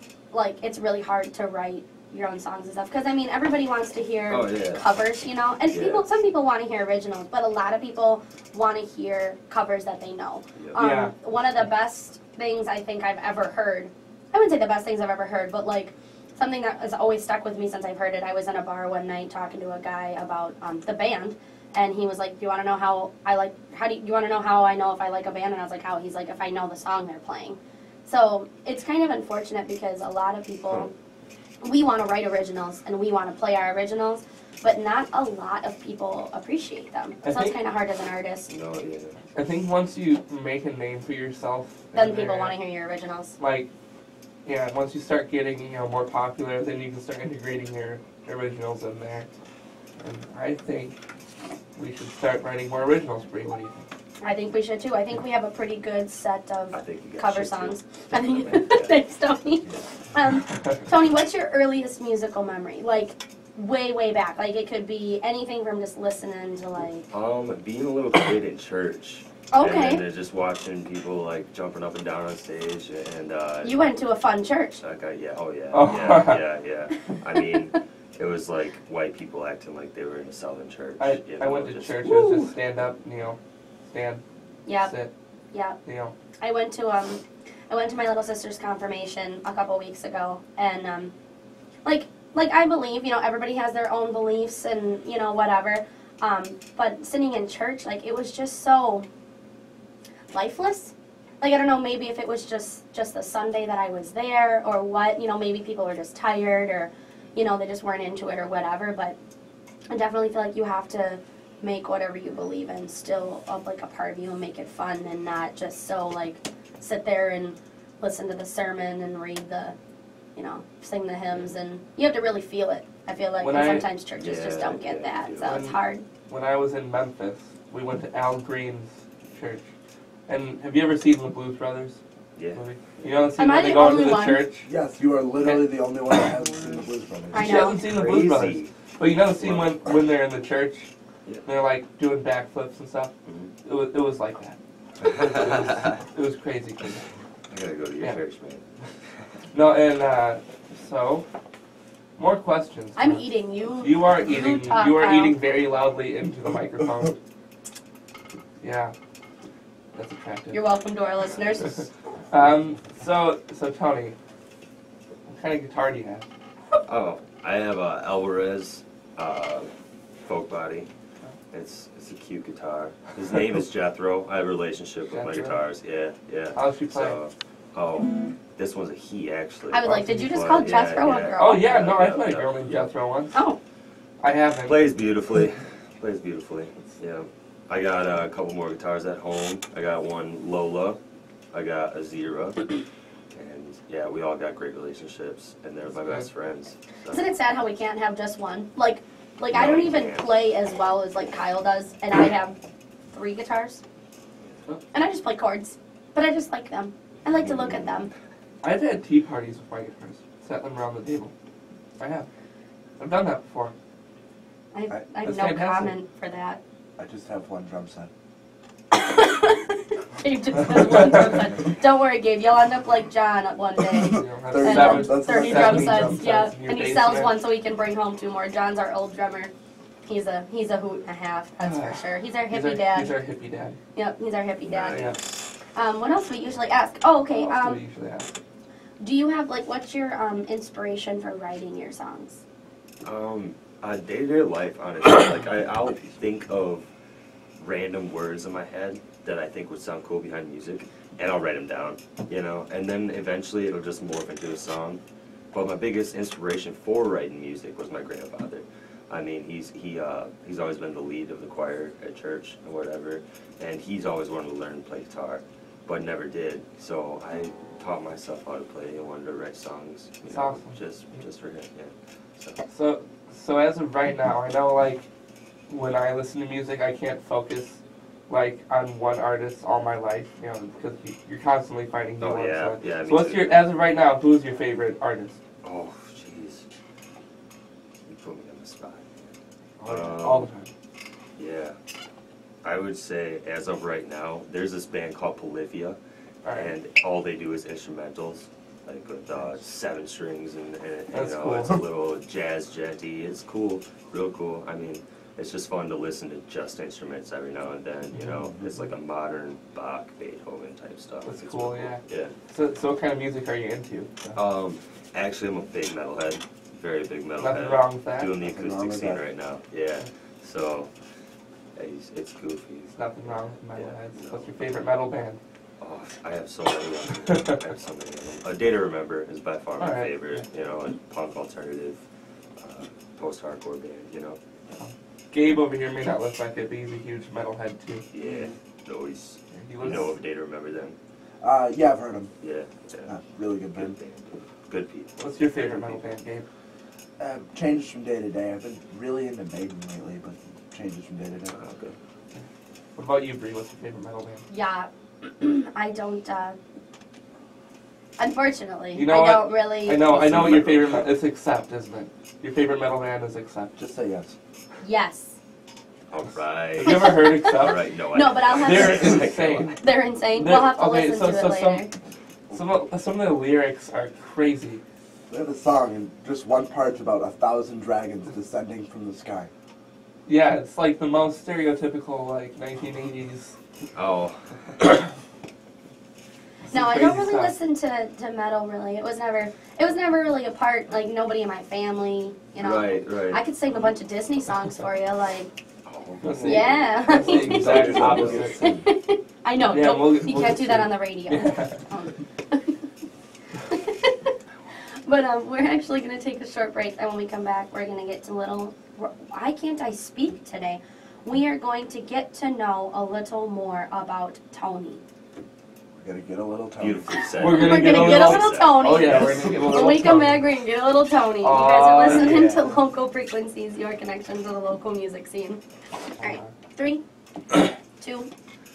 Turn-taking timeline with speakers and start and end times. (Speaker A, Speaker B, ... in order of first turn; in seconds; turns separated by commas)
Speaker A: 0.3-30.9, Speaker B: 4.3-4.8, Speaker B: 5.7-6.0, Speaker B: 10.6-10.8, Speaker C: 10.7-11.1, Speaker A: 31.6-38.5, Speaker C: 37.2-37.6, Speaker B: 38.5-39.1, Speaker C: 39.3-42.5, Speaker A: 41.9-43.4, Speaker C: 43.4-43.7, Speaker C: 44.4-49.3, Speaker C: 50.0-51.0, Speaker C: 51.8-53.8, Speaker A: 54.2-67.1, Speaker B: 56.7-59.0, Speaker B: 67.1-73.8, Speaker A: 69.5-70.0, Speaker A: 73.6-74.8, Speaker B: 74.8-82.5, Speaker C: 75.7-76.4, Speaker C: 81.0-83.4, Speaker C: 83.9-84.2, Speaker A: 84.7-84.9, Speaker C: 84.8-85.1, Speaker A: 85.5-85.8, Speaker C: 85.8-86.1, Speaker A: 86.4-91.1, Speaker A: 91.8-99.1, Speaker A: 100.3-109.2, Speaker A: 109.9-119.8, Speaker A: 120.3-126.0, Speaker C: 123.4-123.9, Speaker B: 124.2-125.6, Speaker C: 125.4-129.6, Speaker C: 130.3-132.0, Speaker B: 132.3-133.3, Speaker C: 132.5-134.7, Speaker A: 133.4-134.4, Speaker D: 134.7-137.6, Speaker B: 136.4-136.8, Speaker A: 137.3-137.8, Speaker C: 137.3-140.9, Speaker B: 137.7-138.7, Speaker B: 139.3-139.8, Speaker C: 141.4-143.1, Speaker B: 143.2-143.5, Speaker C: 143.6-147.0, Speaker B: 145.0-146.0, Speaker B: 147.5-148.6, Speaker C: 149.5-151.2, Speaker C: 152.2-153.2, Speaker A: 152.9-155.4, Speaker C: 153.8-157.2, Speaker C: 158.6-158.9, Speaker C: 159.9-160.6, Speaker A: 160.5-161.8, Speaker C: 162.3-164.2, Speaker C: 165.3-166.2, Speaker B: 166.7-169.7, Speaker B: 170.2-170.9, Speaker B: 171.5-182.8, Speaker C: 175.1-175.6, Speaker C: 176.5-177.2, Speaker A: 179.7-181.6, Speaker C: 181.4-183.4, Speaker A: 183.3-183.6, Speaker C: 184.2-184.9, Speaker B: 184.6-191.0, Speaker B: 191.5-192.7, Speaker B: 193.3-197.2, Speaker A: 197.1-202.6, Speaker B: 199.5-200.3, Speaker A: 203.1-203.8, Speaker A: 204.9-208.1, Speaker B: 207.3-208.1, Speaker C: 208.6-211.3, Speaker C: 212.0-212.2, Speaker C: 213.0-213.7, Speaker A: 214.7-216.6, Speaker C: 215.2-215.9, Speaker D: 217.0-218.1, Speaker A: 218.9-229.5, Speaker D: 223.9-226.4, Speaker C: 224.1-227.3, Speaker A: 230.1-233.1, Speaker C: 231.6-233.8, Speaker A: 233.9-235.1, Speaker B: 234.6-235.4, Speaker C: 234.9-235.2, Speaker A: 235.7-237.8, Speaker C: 237.3-238.3, Speaker A: 239.0-242.4, Speaker B: 243.0-246.9, Speaker B: 247.6-255.0, Speaker B: 255.5-272.6, Speaker C: 270.3-271.2, Speaker C: 272.7-275.1, Speaker C: 275.7-285.4, Speaker B: 282.2-283.6, Speaker B: 285.6-286.6, Speaker B: 288.1-289.3, Speaker C: 289.8-290.7, Speaker B: 289.9-290.5, Speaker B: 291.4-291.8, Speaker B: 292.6-296.0, Speaker C: 296.4-296.7, Speaker B: 296.5-312.3, Speaker C: 301.1-301.8, Speaker C: 308.1-308.5, Speaker C: 311.2-314.4, Speaker B: 314.3-320.9, Speaker C: 317.4-318.3, Speaker D: 318.4-319.2, Speaker B: 321.7-324.6, Speaker C: 322.9-325.4, Speaker B: 325.8-332.0, Speaker C: 327.3-327.6, Speaker C: 329.8-330.4, Speaker B: 332.6-334.4, Speaker C: 334.7-338.1, Speaker B: 338.1-340.9, Speaker C: 339.5-340.1, Speaker D: 341.4-342.3, Speaker B: 342.4-343.1, Speaker D: 343.1-343.9, Speaker B: 343.7-346.1, Speaker C: 345.2-346.5, Speaker D: 347.2-351.6, Speaker B: 351.5-351.9, Speaker C: 352.9-354.4, Speaker A: 354.5-356.6, Speaker A: 358.2-360.0, Speaker C: 358.9-363.8, Speaker B: 360.0-361.1, Speaker D: 363.8-364.4, Speaker A: 364.8-365.4, Speaker B: 366.1-369.9, Speaker C: 366.8-367.8, Speaker A: 366.8-369.2, Speaker C: 368.6-371.9, Speaker A: 369.8-371.9, Speaker C: 372.5-374.8, Speaker D: 375.3-379.5, Speaker C: 380.2-383.6, Speaker B: 383.9-384.8, Speaker C: 386.7-387.5, Speaker A: 386.7-395.5, Speaker B: 392.6-393.4, Speaker B: 395.9-398.5, Speaker C: 396.2-398.7, Speaker A: 396.4-397.9, Speaker D: 397.2-398.9, Speaker A: 398.6-402.8, Speaker C: 399.6-401.8, Speaker A: 403.6-404.3, Speaker A: 405.0-415.0, Speaker D: 415.9-417.2, Speaker B: 416.8-419.3, Speaker C: 417.4-420.4, Speaker A: 417.4-427.0, Speaker C: 421.4-422.7, Speaker C: 426.2-426.5, Speaker A: 428.0-428.3